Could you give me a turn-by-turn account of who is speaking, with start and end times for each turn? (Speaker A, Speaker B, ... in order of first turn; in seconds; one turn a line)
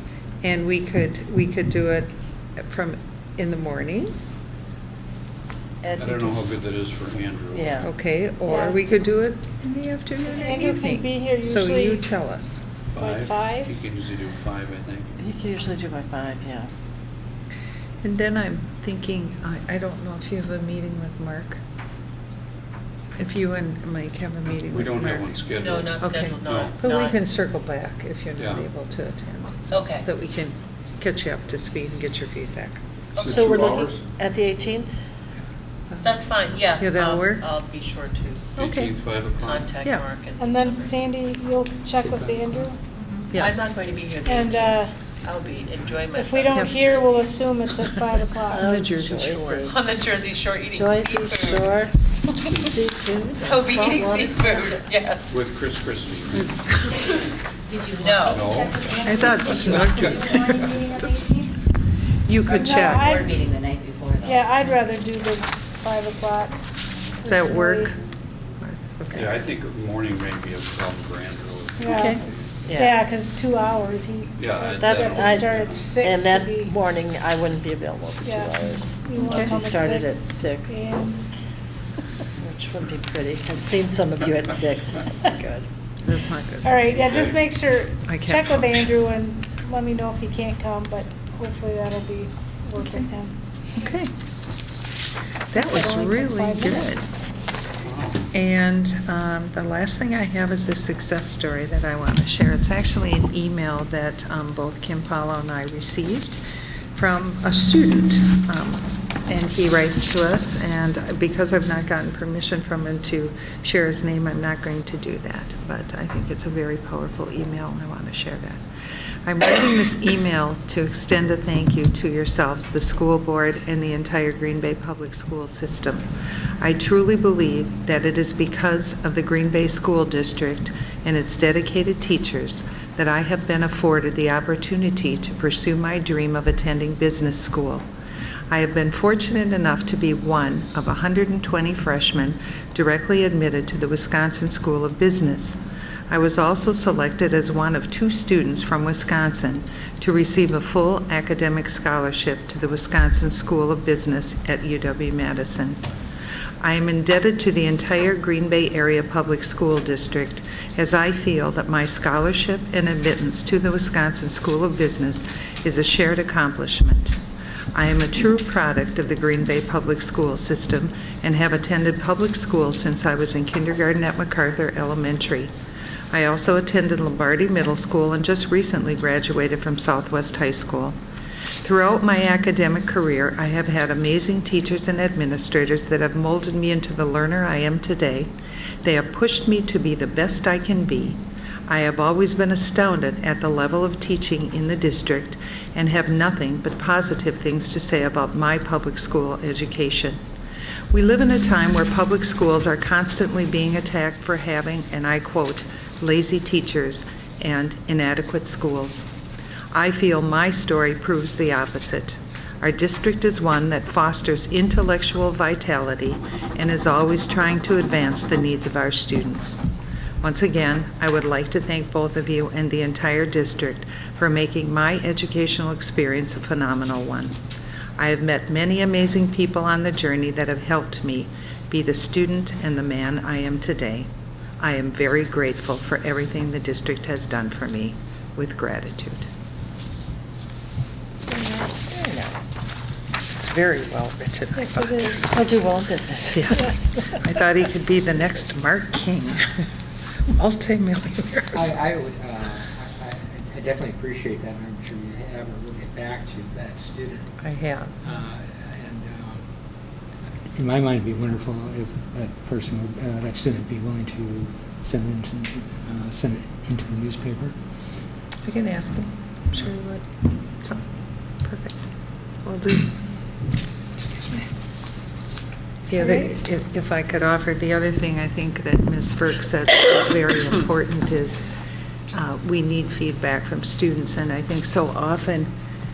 Speaker A: 0.4-4.1
Speaker B: 5.8-6.4
Speaker C: 6.0-7.8
Speaker B: 7.5-7.9
Speaker A: 7.8-12.6
Speaker D: 8.4-8.8
Speaker D: 10.3-12.0
Speaker C: 12.9-15.2
Speaker D: 13.0-13.7
Speaker B: 15.2-16.7
Speaker A: 18.0-21.6
Speaker A: 23.1-25.3
Speaker C: 24.7-26.8
Speaker E: 25.5-27.2
Speaker A: 25.9-32.8
Speaker C: 28.4-28.7
Speaker E: 29.7-30.1
Speaker E: 33.1-33.5
Speaker B: 33.2-34.9
Speaker C: 33.2-34.0
Speaker A: 35.9-36.2
Speaker E: 36.0-38.5
Speaker A: 36.7-37.4
Speaker A: 38.6-38.9
Speaker C: 38.6-39.8
Speaker E: 39.4-41.0
Speaker D: 40.4-42.8
Speaker F: 42.0-42.7
Speaker E: 43.4-47.6
Speaker D: 44.2-44.9
Speaker D: 46.1-48.6
Speaker B: 48.5-49.8
Speaker A: 48.5-49.7
Speaker E: 49.4-51.8
Speaker B: 50.7-54.9
Speaker E: 53.4-55.3
Speaker C: 55.3-56.6
Speaker A: 56.3-56.9
Speaker G: 57.7-59.5
Speaker E: 57.9-58.5
Speaker C: 58.2-60.1
Speaker A: 59.0-61.1
Speaker G: 60.1-60.5
Speaker A: 62.2-63.2
Speaker D: 62.5-63.4
Speaker G: 63.2-64.5
Speaker D: 64.2-66.6
Speaker D: 67.2-67.9
Speaker A: 67.2-68.0
Speaker A: 68.6-69.3
Speaker C: 69.1-72.4
Speaker D: 71.8-72.2
Speaker A: 71.8-72.2
Speaker B: 72.6-73.0
Speaker D: 72.7-76.7
Speaker C: 74.4-75.9
Speaker B: 74.8-80.9
Speaker D: 78.2-81.3
Speaker A: 79.2-79.5
Speaker B: 82.4-85.7
Speaker A: 86.0-87.0
Speaker D: 86.6-93.3
Speaker C: 87.0-87.4
Speaker A: 88.1-88.8
Speaker A: 92.8-93.1
Speaker A: 93.8-94.1
Speaker A: 95.5-97.1
Speaker D: 95.6-97.1
Speaker C: 97.8-98.2
Speaker A: 98.3-106.4
Speaker A: 106.9-118.6
Speaker A: 119.2-126.1
Speaker A: 126.6-137.8
Speaker A: 138.5-155.8
Speaker A: 156.6-167.2
Speaker A: 167.7-175.5
Speaker A: 176.1-180.9
Speaker A: 181.6-188.3
Speaker A: 188.8-200.2
Speaker A: 200.9-209.1
Speaker A: 209.7-219.6
Speaker A: 220.2-227.4
Speaker A: 228.0-239.3
Speaker B: 241.3-242.6
Speaker A: 243.3-245.4
Speaker D: 244.6-245.2
Speaker B: 245.2-246.7
Speaker A: 246.3-249.5
Speaker D: 246.5-247.2
Speaker A: 250.3-251.7
Speaker F: 251.5-257.3
Speaker A: 257.4-257.9
Speaker F: 258.0-259.4
Speaker F: 260.5-267.6
Speaker A: 268.4-270.1
Speaker A: 271.4-271.8
Speaker A: 272.4-272.9
Speaker F: 274.0-274.5
Speaker A: 275.9-281.4
Speaker D: 276.0-276.3
Speaker A: 282.1-285.5